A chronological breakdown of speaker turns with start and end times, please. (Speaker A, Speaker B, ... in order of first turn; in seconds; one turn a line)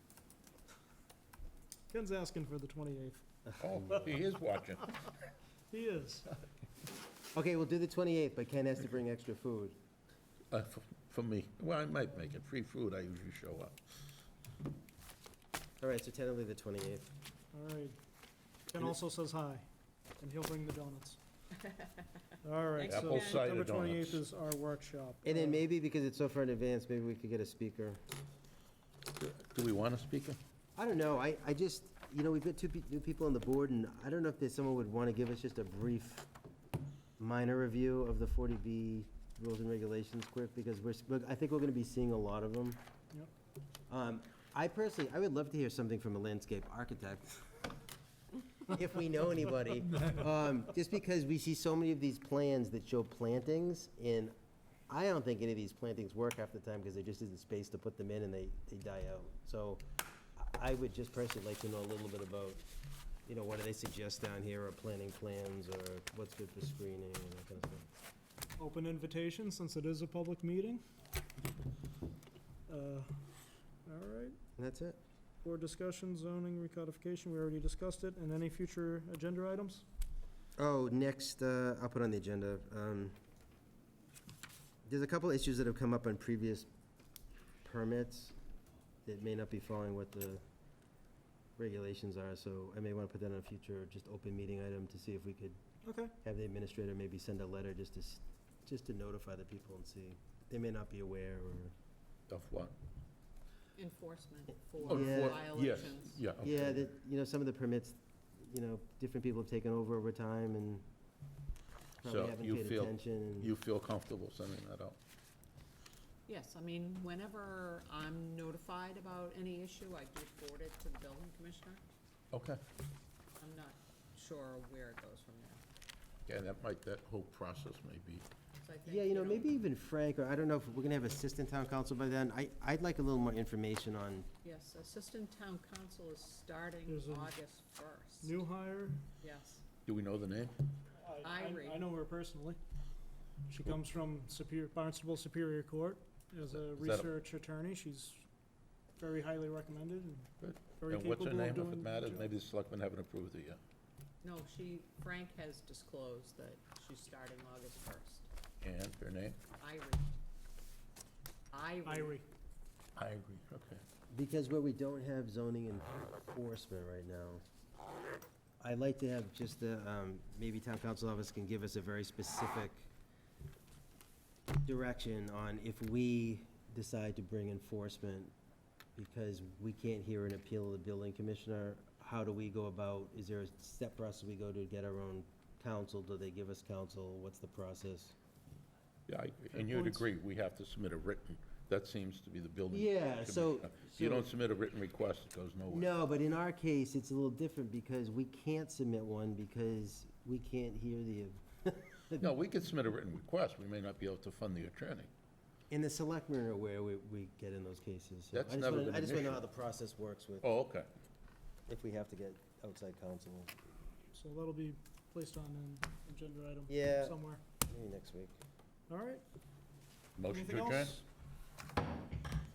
Speaker A: 1.9-3.2
Speaker B: 3.5-4.1
Speaker C: 3.6-4.9
Speaker A: 5.7-6.3
Speaker B: 7.3-9.8
Speaker C: 10.5-13.8
Speaker B: 15.8-17.1
Speaker A: 17.5-18.0
Speaker A: 18.7-19.6
Speaker A: 20.2-21.2
Speaker A: 22.4-25.6
Speaker D: 22.7-23.6
Speaker C: 22.9-24.2
Speaker B: 25.2-28.0
Speaker C: 29.1-30.4
Speaker B: 30.8-36.3
Speaker B: 37.2-42.8
Speaker B: 43.9-47.6
Speaker B: 48.6-54.3
Speaker B: 54.9-59.8
Speaker B: 60.4-62.6
Speaker B: 63.2-67.8
Speaker A: 68.6-70.8
Speaker A: 72.7-73.1
Speaker A: 73.8-74.4
Speaker B: 74.6-75.0
Speaker A: 75.4-79.8
Speaker B: 80.6-83.1
Speaker B: 84.8-86.7
Speaker B: 87.6-88.3
Speaker B: 89.0-90.4
Speaker B: 91.6-95.6
Speaker A: 95.8-96.1
Speaker B: 96.2-101.7
Speaker C: 102.3-102.7
Speaker D: 103.8-106.3
Speaker C: 104.8-106.9
Speaker B: 104.9-105.4
Speaker B: 106.4-110.8
Speaker B: 112.0-113.5
Speaker C: 112.0-115.0
Speaker D: 116.3-121.8
Speaker C: 122.3-122.6
Speaker D: 123.4-125.6
Speaker C: 126.3-128.2
Speaker D: 128.6-129.5
Speaker B: 128.8-134.3
Speaker D: 134.4-138.3
Speaker A: 136.8-137.3
Speaker A: 138.2-139.0
Speaker D: 139.2-139.6
Speaker C: 139.8-140.6
Speaker A: 141.0-142.6
Speaker D: 141.2-141.9
Speaker A: 143.5-148.2
Speaker C: 146.5-147.1
Speaker A: 149.0-152.3
Speaker C: 150.4-153.6
Speaker D: 154.2-158.3
Speaker C: 158.6-159.4
Speaker D: 159.6-160.1
Speaker D: 161.5-162.2
Speaker A: 161.8-162.2
Speaker C: 162.9-163.8
Speaker B: 164.1-167.4
Speaker B: 168.6-172.9
Speaker B: 174.6-178.3
Speaker B: 178.9-188.1
Speaker C: 189.1-195.9
Speaker B: 192.7-194.3
Speaker B: 195.7-202.2
Speaker C: 202.2-205.1
Speaker B: 205.7-210.4
Speaker C: 208.3-209.4
Speaker C: 210.4-210.9
Speaker B: 211.7-213.5
Speaker A: 214.1-217.4
Speaker B: 216.7-218.4
Speaker A: 218.9-219.2
Speaker C: 220.2-221.0
Speaker A: 220.3-221.0